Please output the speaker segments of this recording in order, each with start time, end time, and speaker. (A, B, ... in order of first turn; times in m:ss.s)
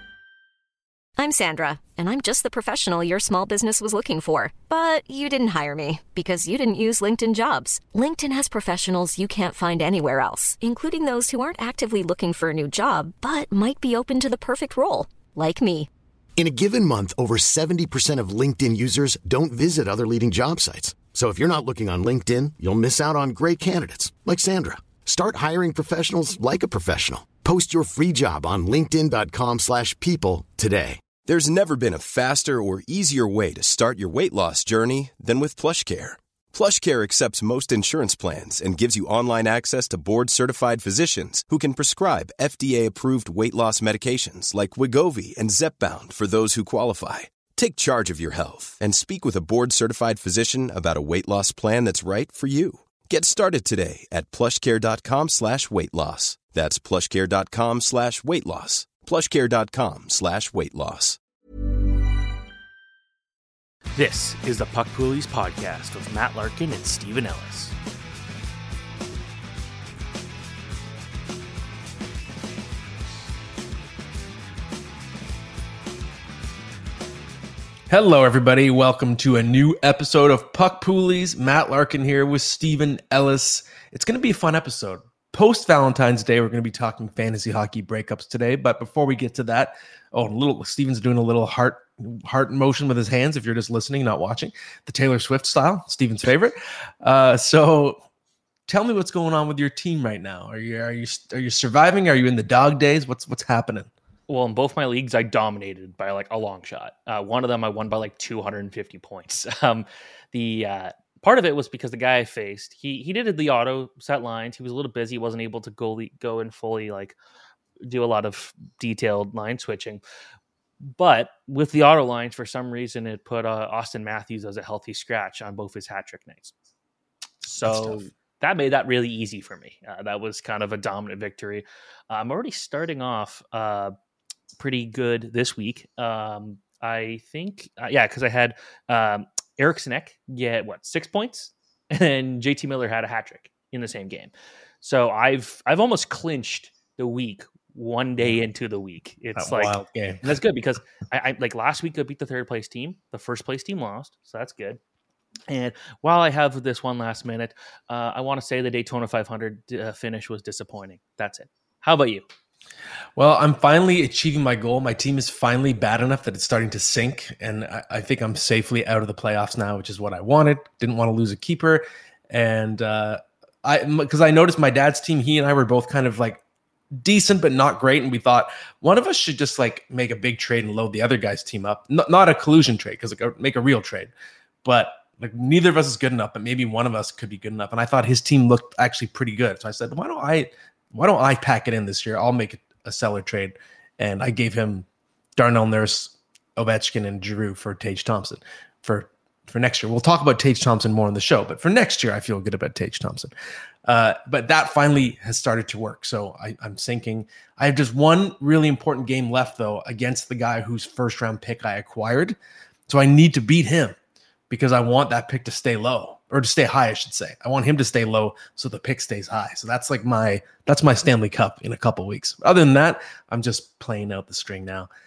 0:01.2-0:15.9 A
0:16.4-0:31.0 B
0:31.2-1:01.2 C
1:04.0-1:07.7 D
1:17.9-1:38.0 E
1:38.7-1:43.9 E
1:44.3-1:57.2 D
1:57.8-2:00.0 D
2:00.8-2:06.5 D
2:07.4-2:13.9 D
2:07.6-2:08.1 E
2:14.6-2:34.8 D
2:29.4-2:30.3 E
2:35.5-2:42.3 D
2:43.2-2:56.4 E
2:57.0-3:04.1 E
3:04.6-3:23.3 E
3:23.8-3:32.4 E
3:32.9-3:34.0 E
3:34.5-3:44.9 E